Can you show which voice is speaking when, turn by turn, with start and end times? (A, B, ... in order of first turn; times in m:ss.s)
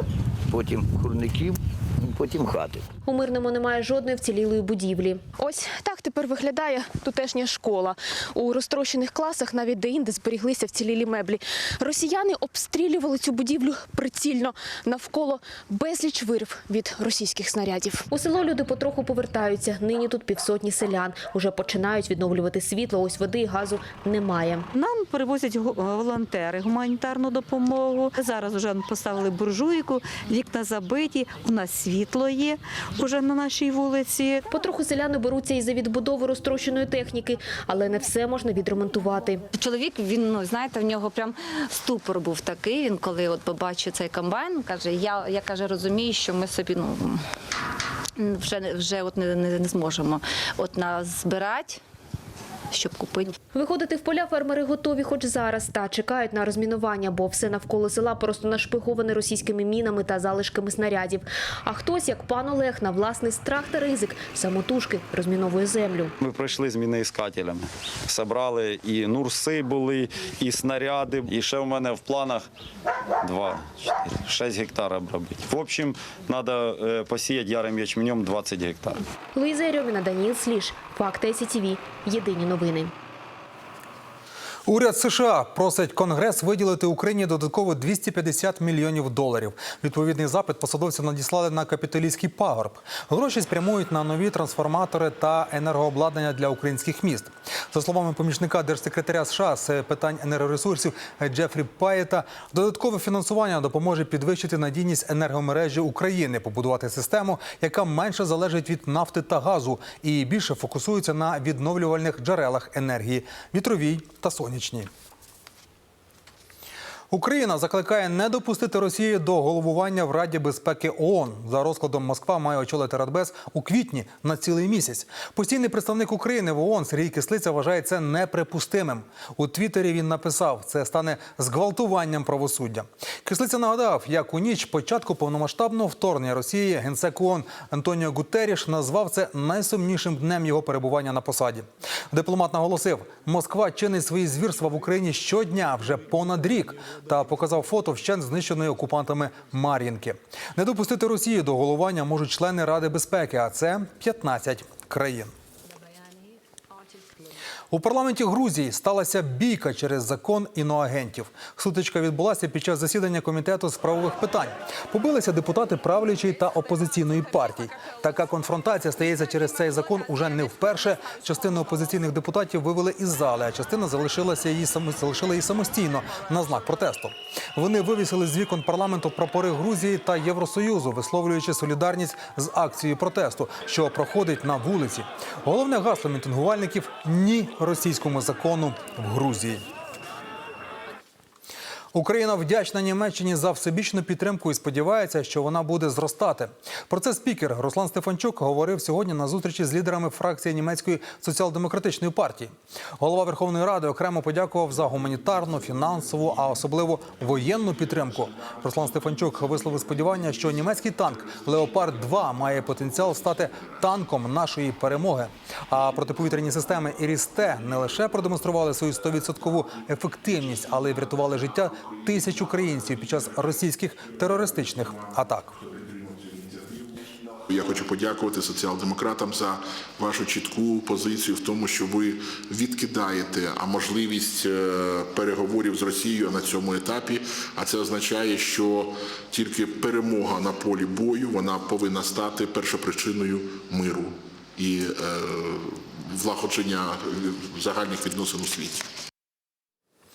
0:00.5-0:02.8 A
0:03.1-0:05.3 B
0:05.3-0:18.1 C
0:18.1-0:24.7 B
0:24.7-0:34.4 D
0:34.5-0:39.4 B
0:39.5-0:47.2 E
0:48.2-0:51.8 E
0:52.7-0:53.4 E
0:53.5-1:06.1 B
1:06.2-1:12.4 F
1:13.2-1:19.0 F
1:19.4-1:22.9 B
1:24.6-1:54.9 G
1:57.1-2:35.3 G
2:37.7-3:09.6 G
3:11.9-3:45.6 G
3:45.7-3:46.9 H
3:47.5-4:08.8 H